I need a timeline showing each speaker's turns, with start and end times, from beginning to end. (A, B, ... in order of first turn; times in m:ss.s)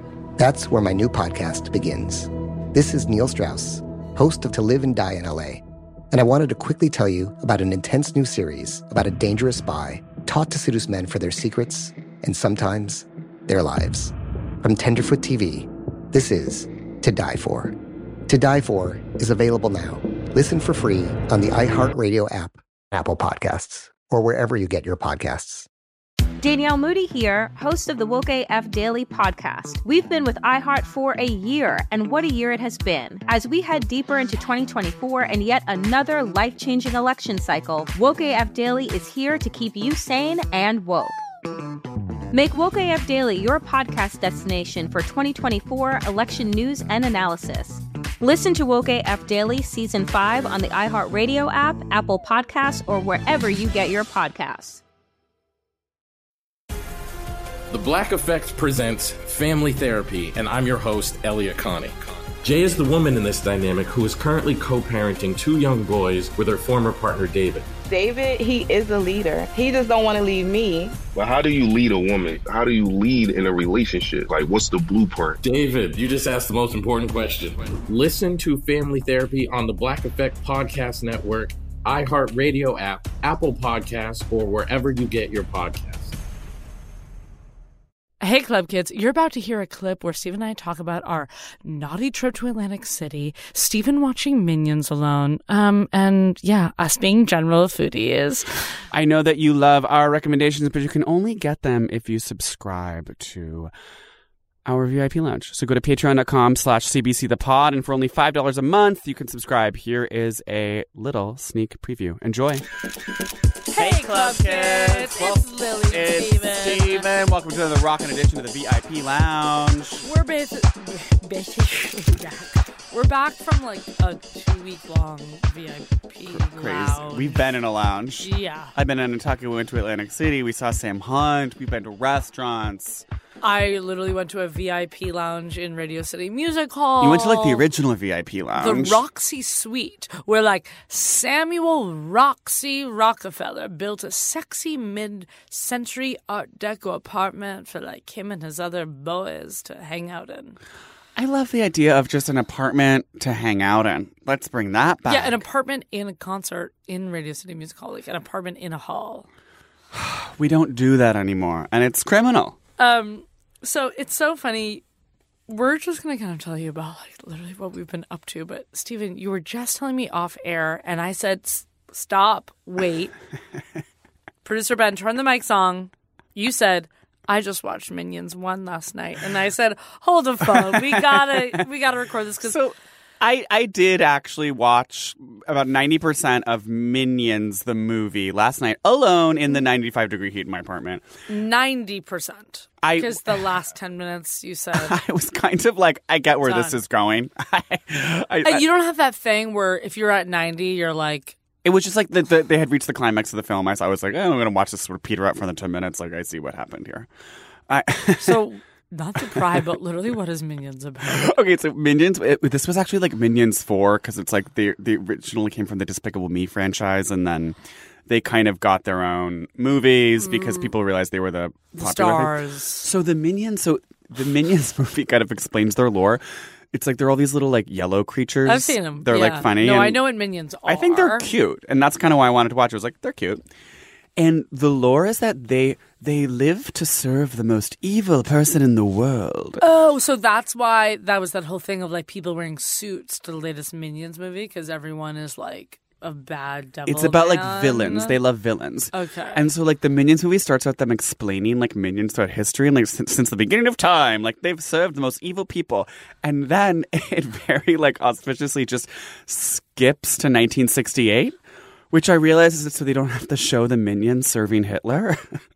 0:00.4-0:17.8 A
0:18.3-0:25.7 A
0:26.4-0:41.2 B
0:42.3-0:54.8 B
0:57.7-1:07.7 C
1:07.9-1:11.0 D
1:11.2-1:15.4 E
1:15.4-1:26.2 C
1:28.2-1:38.8 F
1:38.9-1:43.7 G
1:44.7-1:52.6 G
1:53.7-1:57.1 F
1:53.8-2:00.0 G
2:00.0-2:07.5 F
2:06.3-2:13.0 G
2:08.2-2:08.7 F
2:13.4-2:17.7 F
2:17.0-2:19.0 G
2:18.6-2:30.6 F
2:31.2-2:35.4 G
2:35.1-2:39.3 F
2:39.9-2:42.6 G
2:42.8-2:44.8 F
2:45.5-2:53.1 F
2:54.4-3:02.6 F
3:00.9-3:01.5 G
3:02.4-3:11.0 G
3:11.3-3:15.0 F
3:12.8-3:13.4 G
3:14.8-3:18.7 G
3:16.4-3:16.8 F
3:18.4-3:21.4 F
3:21.6-3:27.1 G
3:27.7-3:28.4 G
3:28.2-3:31.3 F
3:31.1-3:37.6 G
3:38.1-3:53.4 G
3:40.2-3:40.7 F
3:41.8-3:42.9 F
3:48.4-3:51.3 F
3:54.2-3:59.6 G
3:59.6-4:08.2 F
4:06.8-4:21.4 G
4:08.9-4:09.4 F
4:21.9-4:25.4 G